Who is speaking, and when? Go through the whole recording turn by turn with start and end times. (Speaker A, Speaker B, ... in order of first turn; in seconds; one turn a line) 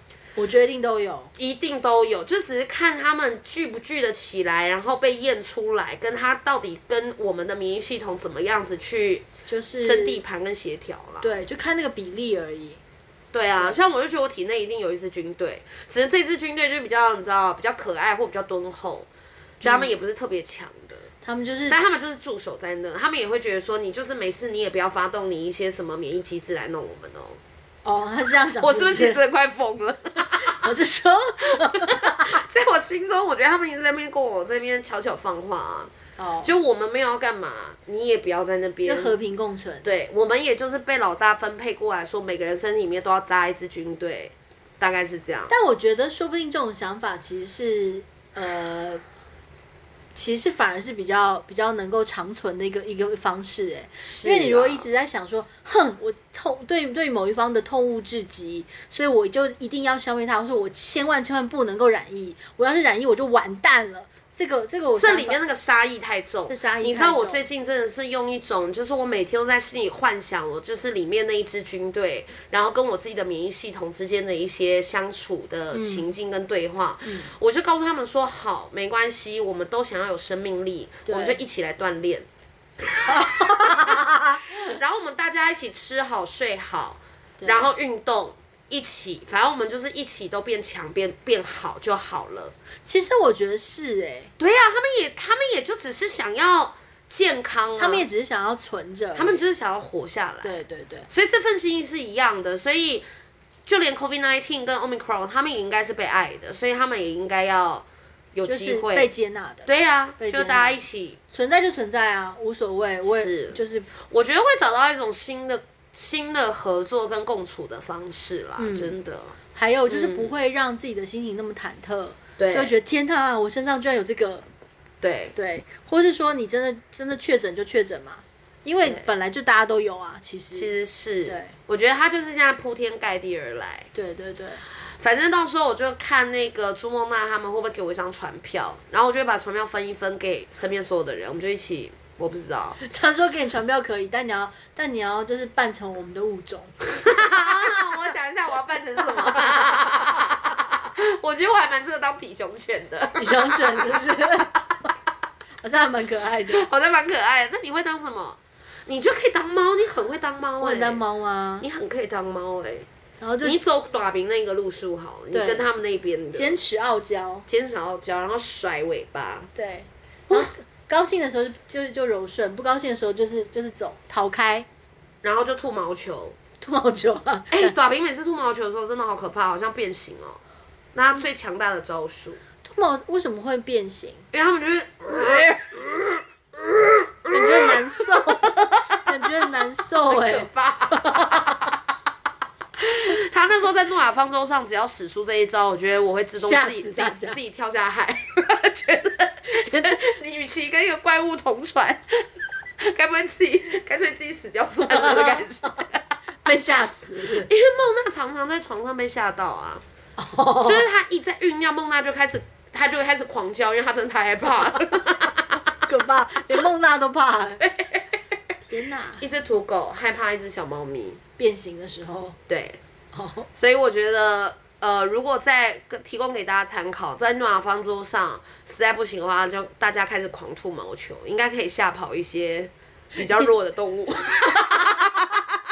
Speaker A: 0.3-1.3
Speaker B: 1.4-9.2
Speaker A: 9.5-10.2
Speaker B: 9.8-11.3
Speaker A: 11.2-12.8
Speaker B: 13.3-19.1
Speaker B: 19.6-21.1
Speaker A: 19.6-19.9
Speaker A: 21.2-21.8
Speaker B: 21.7-27.4
Speaker A: 27.8-29.2
Speaker B: 28.6-30.6
Speaker A: 30.3-32.4
Speaker B: 31.8-39.1
Speaker A: 36.2-36.5
Speaker A: 38.8-39.8
Speaker B: 39.8-45.5
Speaker A: 45.5-49.0
Speaker A: 50.1-65.4
Speaker B: 54.0-54.8
Speaker B: 65.0-82.3
Speaker A: 66.5-67.4
Speaker A: 75.7-76.1
Speaker A: 77.0-77.3
Speaker A: 81.0-81.4
Speaker B: 82.9-84.0
Speaker A: 83.1-84.8
Speaker B: 84.6-92.5
Speaker A: 87.4-87.7
Speaker A: 92.8-94.3
Speaker B: 94.4-98.0
Speaker A: 97.8-99.4
Speaker B: 99.1-100.5
Speaker A: 100.4-101.1
Speaker B: 101.1-103.0
Speaker B: 103.7-109.1
Speaker A: 108.5-110.8
Speaker B: 109.7-111.2
Speaker A: 111.3-113.9
Speaker B: 113.0-119.3
Speaker A: 118.6-118.9
Speaker A: 119.5-124.5
Speaker B: 119.9-120.3
Speaker B: 122.4-122.7
Speaker B: 125.0-125.3
Speaker A: 125.3-130.7
Speaker B: 130.5-133.9
Speaker A: 131.2-131.5
Speaker A: 133.9-134.6
Speaker B: 134.8-142.8
Speaker A: 142.8-147.5
Speaker B: 147.0-154.1
Speaker A: 153.2-154.6
Speaker A: 155.6-156.7
Speaker B: 156.5-161.0
Speaker A: 160.6-161.7
Speaker B: 161.6-162.9
Speaker A: 163.2-163.6
Speaker B: 163.4-166.6
Speaker A: 165.3-165.7
Speaker A: 166.3-167.4
Speaker B: 167.5-169.5
Speaker A: 169.5-174.7
Speaker B: 175.2-176.3
Speaker A: 176.6-177.7
Speaker B: 177.5-180.4
Speaker B: 180.9-182.4
Speaker A: 182.6-184.2
Speaker B: 184.3-185.6
Speaker A: 187.3-191.7
Speaker B: 188.2-188.9
Speaker B: 190.1-191.8
Speaker B: 192.8-202.3
Speaker A: 196.3-197.4
Speaker A: 199.5-200.1
Speaker B: 202.8-206.0
Speaker A: 204.8-205.7
Speaker A: 206.4-207.5
Speaker B: 207.4-209.8
Speaker A: 210.2-210.9
Speaker B: 210.6-215.7
Speaker A: 215.9-217.6
Speaker B: 217.6-218.1
Speaker A: 218.7-219.2
Speaker B: 219.2-221.2
Speaker A: 221.4-222.4
Speaker B: 222.5-222.8
Speaker A: 223.1-223.5
Speaker B: 223.5-235.6
Speaker A: 233.2-233.5